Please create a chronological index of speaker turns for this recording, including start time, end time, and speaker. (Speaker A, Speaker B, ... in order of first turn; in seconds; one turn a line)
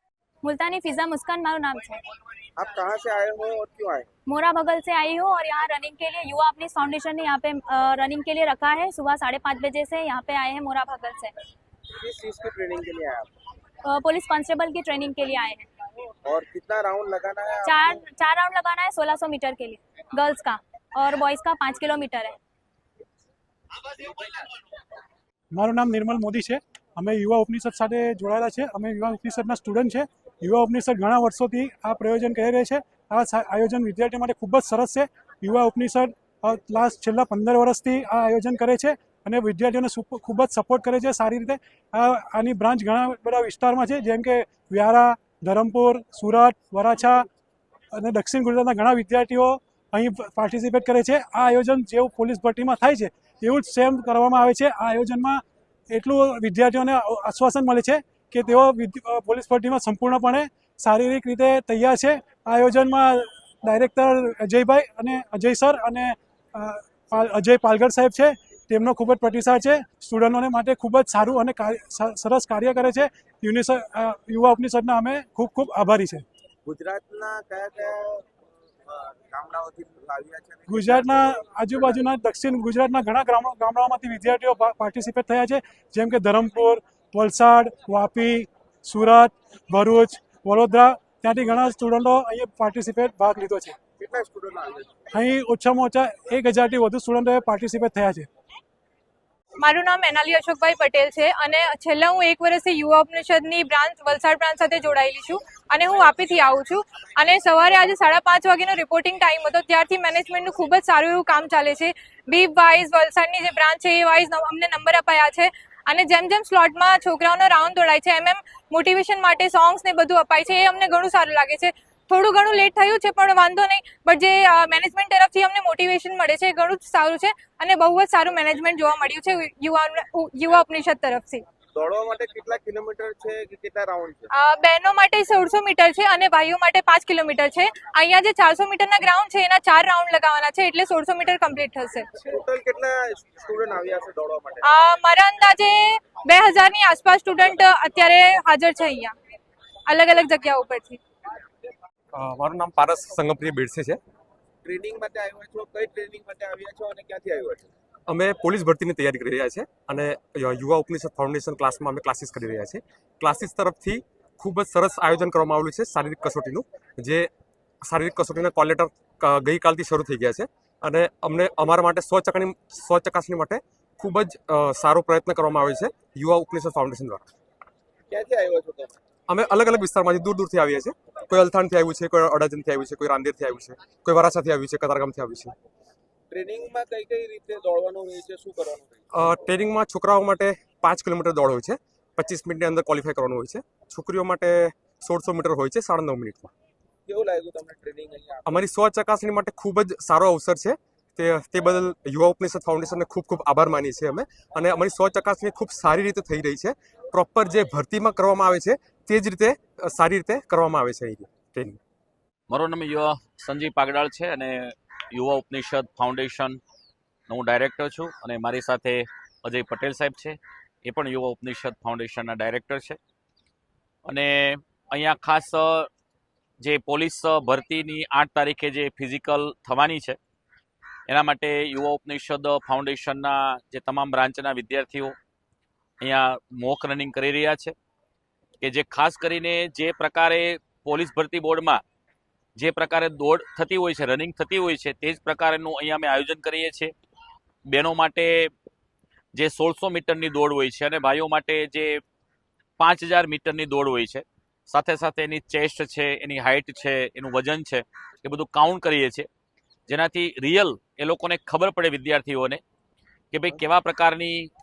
Speaker A: 0.4-2.0
Speaker B: 2.6-4.1
Speaker A: 4.3-11.3
Speaker B: 12.0-13.3
Speaker A: 13.9-15.7
Speaker B: 16.2-18.0
Speaker A: 17.6-22.4
Speaker C: 25.5-47.3
Speaker C: 47.9-76.2
Speaker B: 76.6-81.4
Speaker C: 80.7-93.8
Speaker B: 94.0-95.0
Speaker C: 95.1-98.3
Speaker D: 99.6-131.4
Speaker B: 131.7-134.3
Speaker D: 134.3-142.0
Speaker B: 142.2-144.6
Speaker D: 144.7-149.1
Speaker D: 149.9-151.0
Speaker E: 152.1-154.0
Speaker B: 154.6-157.7
Speaker E: 158.1-167.3
Speaker E: 167.8-177.2
Speaker B: 178.1-179.0
Speaker E: 179.3-185.5
Speaker B: 186.3-189.0
Speaker E: 189.2-196.5
Speaker B: 197.1-198.7
Speaker E: 198.4-211.8
Speaker F: 212.5-216.6
Speaker F: 217.3-223.0
Speaker F: 224.0-225.9
Speaker F: 226.6-230.2
Speaker F: 231.1-235.1
Speaker F: 236.0-237.7
Speaker F: 238.6-241.8
Speaker F: 242.6-246.9
Speaker F: 247.7-248.5
Speaker F: 249.3-252.0
Speaker F: 252.8-259.3
Speaker F: 259.9-262.6
Speaker F: 263.3-264.5